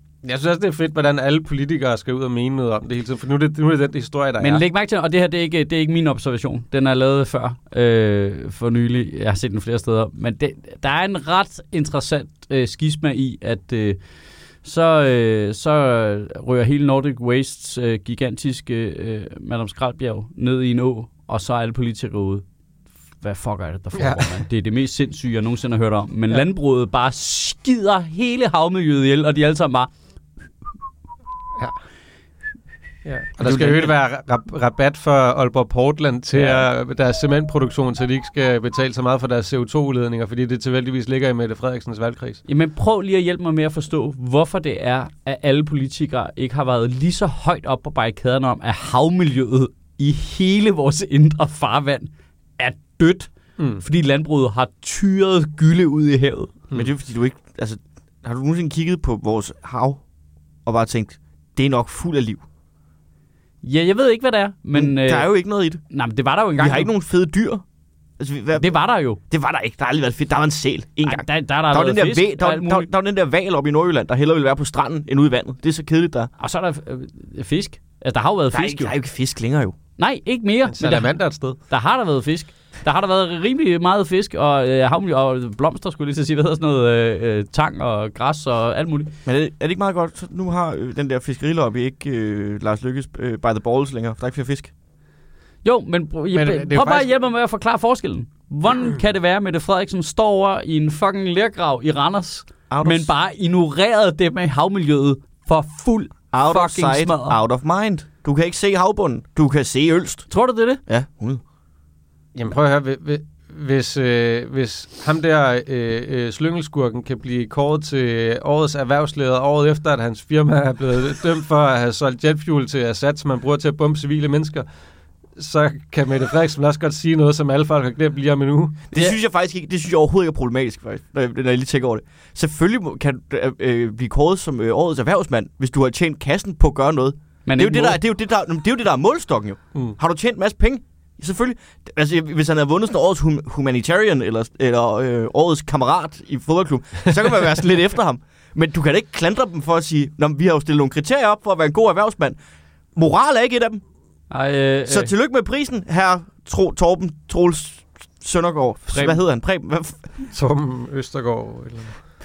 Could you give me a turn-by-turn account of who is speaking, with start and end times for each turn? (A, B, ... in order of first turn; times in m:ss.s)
0:00.2-0:04.6 A
0:04.4-0:14.0 B
0:14.6-0:22.4 B
0:23.2-0:29.9 B
0:24.0-0:24.3 A
0:33.0-0:42.4 A
0:33.4-0:33.9 C
0:36.4-0:36.6 B
0:42.4-0:56.6 B
0:53.6-0:53.8 A
0:56.7-1:00.0 C
1:00.6-1:02.4 C
1:03.6-1:05.3 B
1:04.7-1:05.8 C
1:05.9-1:06.9 B
1:06.6-1:07.6 C
1:08.2-1:16.3 C
1:08.6-1:09.2 B
1:11.0-1:12.9 B
1:16.4-1:18.9 B
1:18.5-1:19.8 C
1:20.0-1:29.1 B
1:20.7-1:21.6 A
1:29.2-1:34.7 C
1:35.6-1:47.4 B
1:36.3-1:37.1 A
1:42.7-1:43.1 C
1:46.3-1:50.3 C
1:50.3-1:50.8 B
1:50.9-1:51.4 C
1:52.4-2:04.6 A
2:05.4-2:08.9 A
2:08.9-2:32.4 C
2:17.4-2:18.0 B
2:32.9-2:33.8 C
2:34.3-2:35.1 B
2:34.9-2:40.1 C
2:38.9-2:39.2 B
2:40.3-2:42.0 A